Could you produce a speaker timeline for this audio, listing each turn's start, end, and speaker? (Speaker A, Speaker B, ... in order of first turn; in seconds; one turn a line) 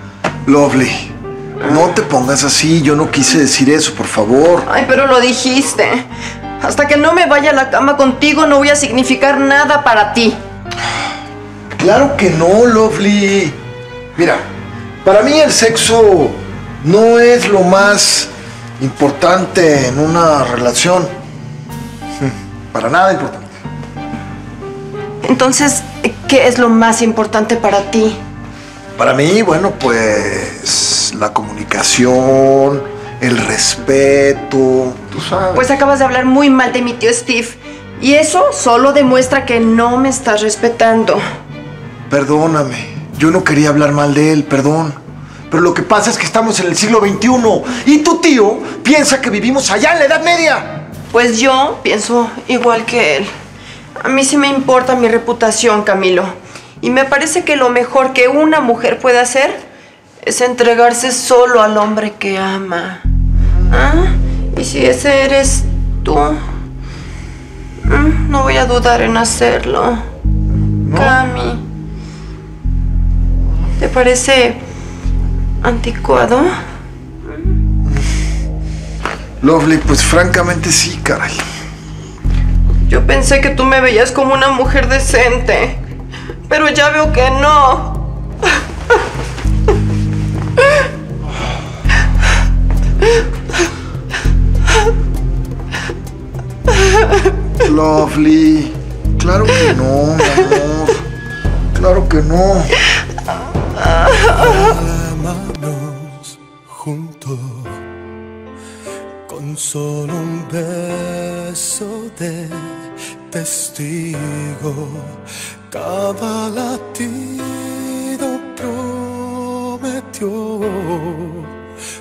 Speaker A: 0.5-4.7
Speaker B: 4.7-6.0
Speaker B: 6.6-10.4
Speaker A: 11.8-13.6
Speaker A: 14.2-14.4
Speaker A: 15.0-21.1
Speaker A: 22.2-23.5
Speaker B: 25.2-28.2
Speaker A: 29.0-35.7
Speaker B: 35.5-41.2
Speaker A: 42.1-45.0
Speaker A: 45.5-50.8
Speaker B: 51.1-53.3
Speaker B: 54.0-59.6
Speaker B: 60.2-63.0
Speaker B: 63.7-66.4
Speaker B: 67.9-70.0
Speaker A: 70.8-71.2
Speaker B: 70.9-71.6
Speaker B: 73.8-74.6
Speaker B: 75.6-76.5
Speaker A: 79.4-81.4
Speaker B: 82.9-85.8
Speaker B: 86.5-88.0
Speaker A: 97.6-101.0
Speaker A: 101.7-102.7
Speaker C: 104.3-107.8
Speaker C: 109.3-112.8
Speaker C: 113.3-115.2
Speaker C: 115.7-121.5